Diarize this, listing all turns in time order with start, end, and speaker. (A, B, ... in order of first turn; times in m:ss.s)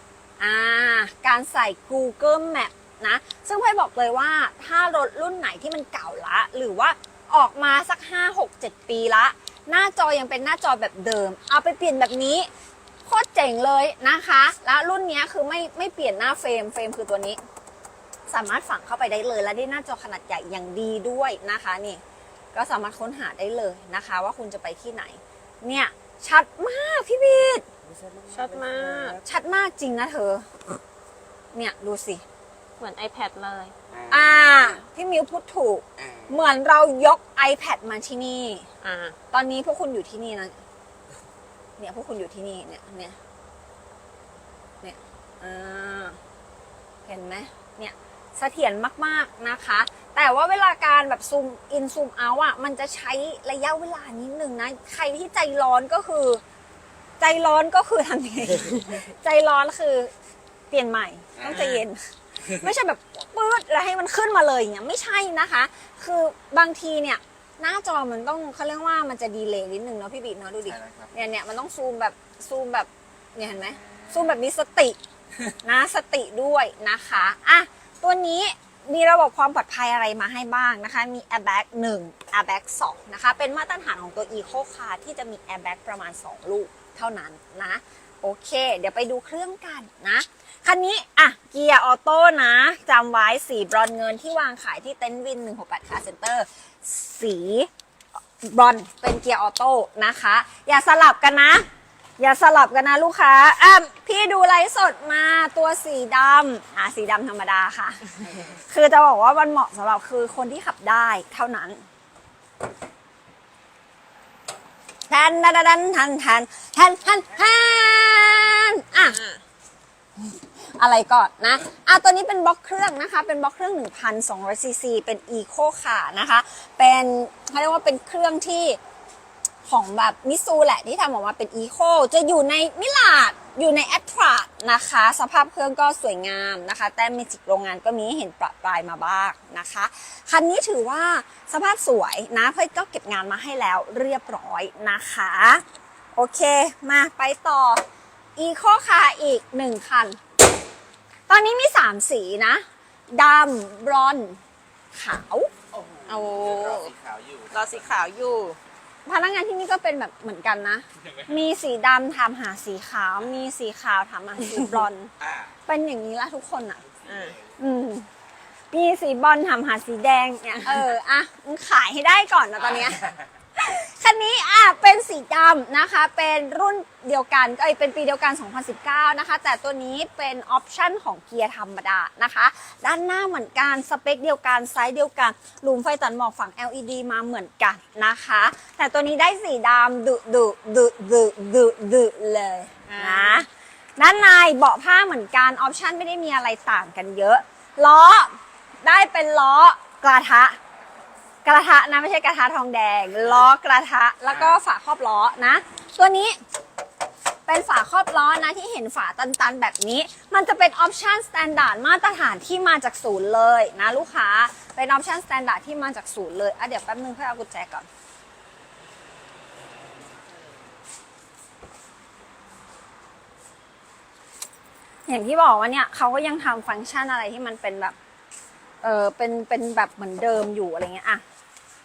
0:00.4-0:12.5 A
0:13.0-0:17.4 A
0:18.3-0:22.0 A
0:22.5-0:27.6 A
0:27.8-0:29.2 B
0:28.3-0:29.2 C
0:29.2-0:30.5 A
0:31.5-0:32.2 A
0:32.8-0:33.7 C
0:33.9-0:34.8 B
0:34.1-0:38.6 A
0:36.0-0:36.4 B
0:38.8-0:39.2 C
0:39.3-0:40.6 A
0:41.8-0:43.2 A
0:44.8-0:46.2 A
0:47.0-0:56.4 A
0:57.2-1:00.1 A
1:00.7-1:15.0 A
1:01.4-1:01.6 B
1:01.5-1:01.8 C
1:02.4-1:02.7 B
1:10.6-1:11.2 B
1:13.5-1:14.4 B
1:15.6-1:37.7 A
1:38.4-1:41.7 A
1:42.2-1:51.8 A
1:55.1-1:59.2 A
1:59.0-1:59.4 C
2:00.2-2:08.8 A
2:09.7-2:25.6 A
2:26.1-2:27.8 A
2:28.4-2:30.2 A
2:31.3-2:34.4 A
2:34.9-2:35.5 A
2:35.7-2:38.1 B
2:36.1-2:36.9 C
2:37.5-2:38.6 C
2:39.0-2:45.1 A
2:41.0-2:41.5 B
2:45.2-2:45.5 B
2:45.7-2:46.8 A
2:46.7-2:47.6 B
2:47.0-2:47.4 C
2:47.6-2:48.1 A
2:48.7-2:53.0 A
2:52.5-2:53.3 B
2:53.5-3:20.6 A
3:12.9-3:13.4 C
3:21.4-3:26.4 A
3:24.3-3:24.6 B
3:27.5-3:37.9 A
3:45.1-3:47.9 A
3:48.8-3:51.2 A